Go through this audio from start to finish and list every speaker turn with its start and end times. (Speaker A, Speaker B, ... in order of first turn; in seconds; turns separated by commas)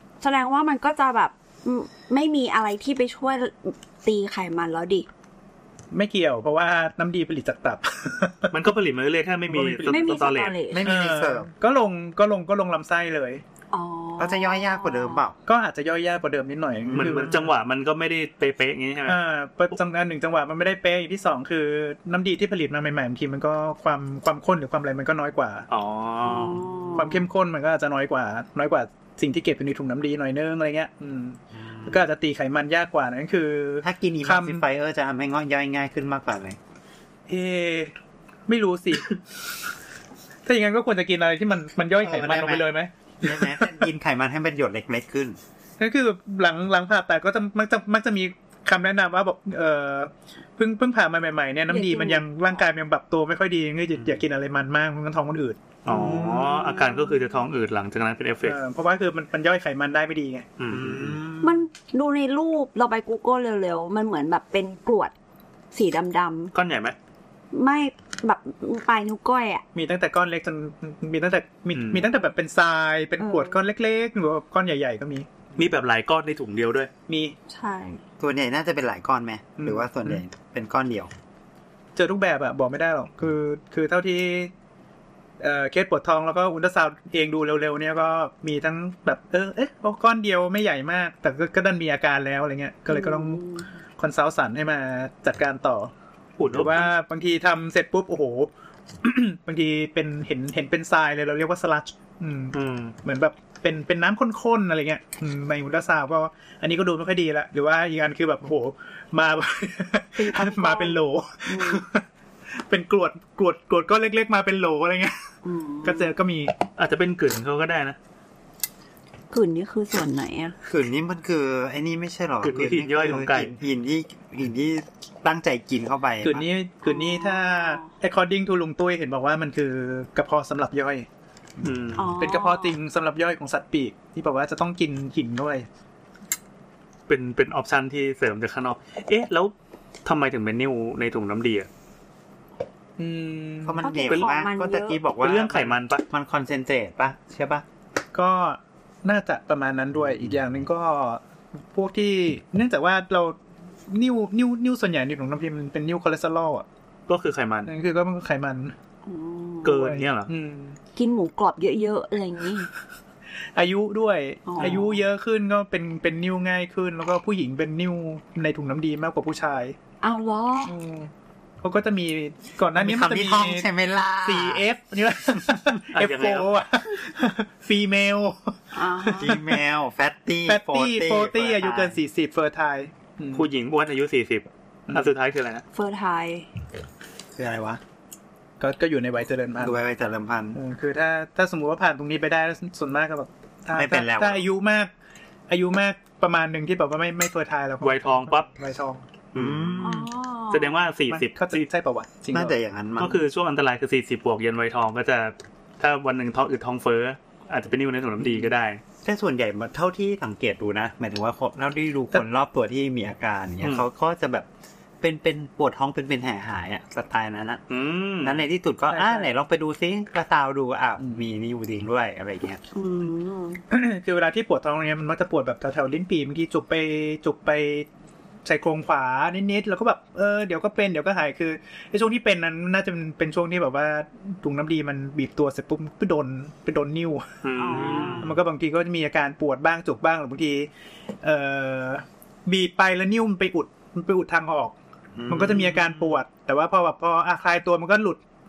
Speaker A: 0.2-5.1, Speaker B: 5.9-8.6, Speaker C: 8.5-10.6, Speaker B: 9.5-10.3, Speaker A: 9.9-10.9, Speaker D: 10.7-11.5, Speaker B: 10.8-13.4, Speaker A: 13.7-15.2, Speaker D: 14.2-15.4, Speaker B: 15.5-17.5, Speaker C: 16.9-19.2, Speaker B: 19.1-25.7, Speaker C: 25.7-26.6, Speaker A: 26.2-27.2, Speaker B: 26.9-34.6, Speaker D: 31.6-32.0, Speaker D: 33.8-36.6, Speaker B: 37.3-37.9, Speaker B: 38.5-39.2, Speaker B: 40.5-43.9, Speaker D: 42.0-42.7, Speaker D: 43.2-45.4, Speaker B: 45.8-56.7, Speaker A: 51.7-52.6, Speaker D: 54.0-54.2, Speaker C: 55.9-58.6, Speaker D: 55.9-56.2, Speaker B: 58.4-60.5, Speaker C: 60.6-61.2, Speaker D: 60.7-61.6, Speaker A: 61.4-65.1, Speaker A: 65.7-66.5, Speaker C: 66.5-67.0, Speaker A: 67.5-69.6, Speaker B: 69.7-75.4, Speaker C: 71.7-72.0, Speaker A: 73.2-73.6, Speaker C: 75.6-76.9, Speaker B: 77.1-77.4, Speaker A: 77.5-78.0, Speaker D: 78.2-81.1, Speaker B: 79.6-80.2, Speaker B: 82.0-84.5, Speaker B: 85.4-93.4, Speaker A: 92.9-93.7, Speaker B: 94.0-95.9, Speaker C: 96.4-96.9, Speaker B: 96.4-98.5, Speaker B: 99.0-112.0, Speaker C: 102.5-102.9, Speaker A: 110.2-111.8, Speaker B: 112.7-115.3, Speaker A: 115.4-116.1, Speaker B: 115.8-116.5, Speaker C: 116.8-118.0, Speaker A: 119.3-120.5, Speaker D: 120.7-126.4, Speaker C: 122.4-123.6, Speaker B: 126.2-131.1, Speaker A: 126.8-127.9, Speaker C: 131.6-132.1, Speaker A: 131.9-132.8, Speaker B: 132.2-135.7, Speaker C: 137.1-139.5, Speaker C: 140.1-141.7, Speaker B: 143.0-144.2, Speaker D: 143.6-147.7, Speaker A: 143.8-145.0, Speaker C: 145.2-146.0, Speaker B: 148.1-153.4, Speaker D: 150.0-150.4, Speaker B: 153.9-156.7, Speaker C: 157.1-157.7, Speaker B: 157.7-158.7, Speaker A: 159.1-159.8, Speaker C: 159.6-160.3, Speaker B: 159.7-160.8, Speaker A: 160.9-162.7, Speaker B: 163.6-169.8, Speaker A: 164.5-165.0, Speaker A: 170.0-170.7, Speaker B: 170.7-171.1, Speaker B: 171.6-173.7, Speaker D: 172.8-174.7, Speaker B: 174.2-179.5, Speaker C: 175.9-176.5, Speaker A: 178.7-179.4, Speaker D: 179.1-182.0, Speaker B: 180.4-183.5, Speaker C: 183.3-185.6, Speaker A: 185.7-186.5, Speaker D: 187.4-187.8, Speaker B: 188.6-189.8, Speaker D: 189.6-190.6, Speaker B: 190.6-194.9, Speaker D: 193.7-194.4, Speaker B: 195.5-199.0, Speaker C: 197.8-198.5, Speaker C: 199.3-201.7, Speaker D: 199.3-200.1, Speaker A: 199.8-200.8, Speaker B: 201.1-202.6, Speaker D: 202.3-203.2, Speaker C: 203.0-208.8, Speaker D: 209.0-214.5, Speaker D: 215.0-217.6, Speaker C: 217.7-218.4, Speaker D: 218.2-222.6, Speaker B: 218.9-219.3, Speaker A: 222.7-223.6, Speaker B: 223.7-227.9, Speaker B: 228.4-237.3, Speaker C: 237.4-238.3, Speaker A: 237.6-238.3, Speaker B: 237.8-240.7, Speaker D: 238.1-238.4, Speaker B: 241.2-244.8, Speaker D: 245.2-246.2, Speaker B: 245.3-248.2